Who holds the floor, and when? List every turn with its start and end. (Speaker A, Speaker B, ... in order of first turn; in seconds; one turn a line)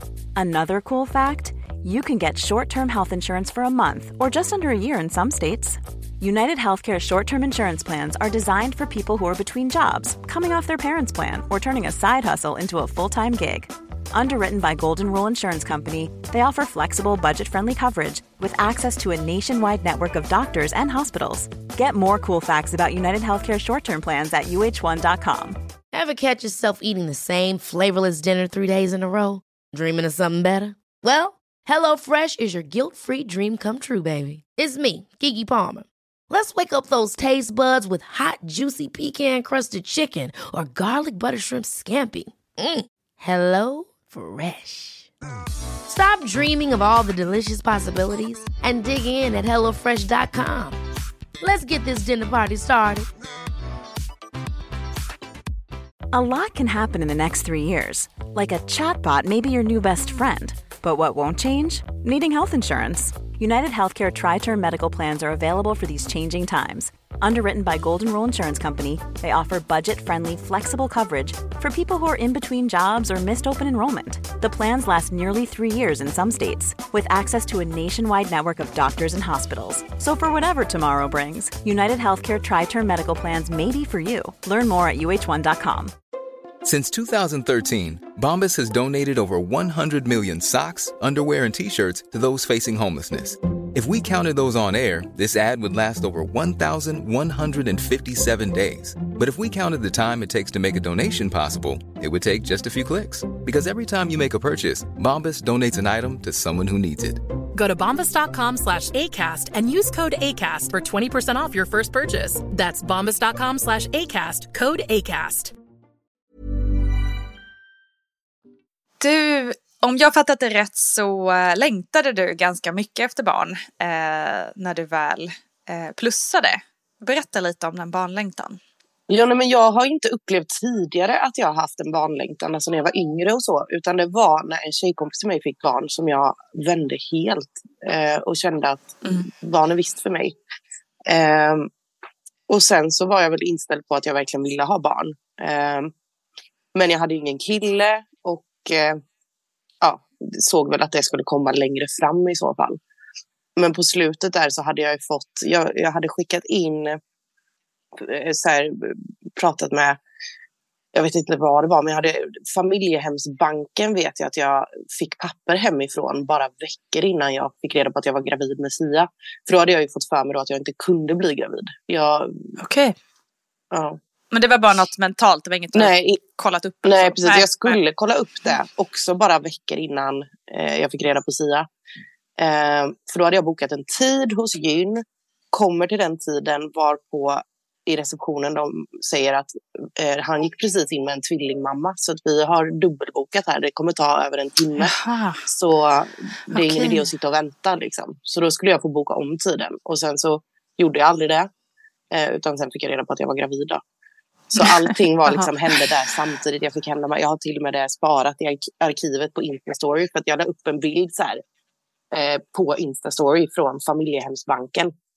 Speaker A: 0.3-25.6
Speaker B: 25.9-45.1
Speaker B: 45.9-50.8
Speaker B: 51.4-53.1
Speaker A: 56.1-85.9
Speaker C: 86.6-107.2
Speaker D: 107.5-115.5
Speaker E: 119.0-128.6
Speaker F: 129.1-140.3
Speaker F: 141.1-141.7
Speaker F: 142.5-145.9
Speaker F: 146.7-149.0
Speaker F: 149.8-152.8
Speaker F: 153.6-157.0
Speaker F: 157.9-160.0
Speaker F: 160.9-172.4
Speaker E: 172.6-172.9
Speaker F: 173.7-174.0
Speaker E: 174.3-177.8
Speaker F: 175.7-176.2
Speaker F: 176.8-181.7
Speaker F: 182.4-194.9
Speaker E: 194.8-195.4
Speaker F: 195.5-201.5
Speaker E: 196.5-197.0
Speaker F: 202.1-203.8
Speaker F: 204.5-211.4
Speaker E: 204.6-205.8
Speaker F: 212.1-214.9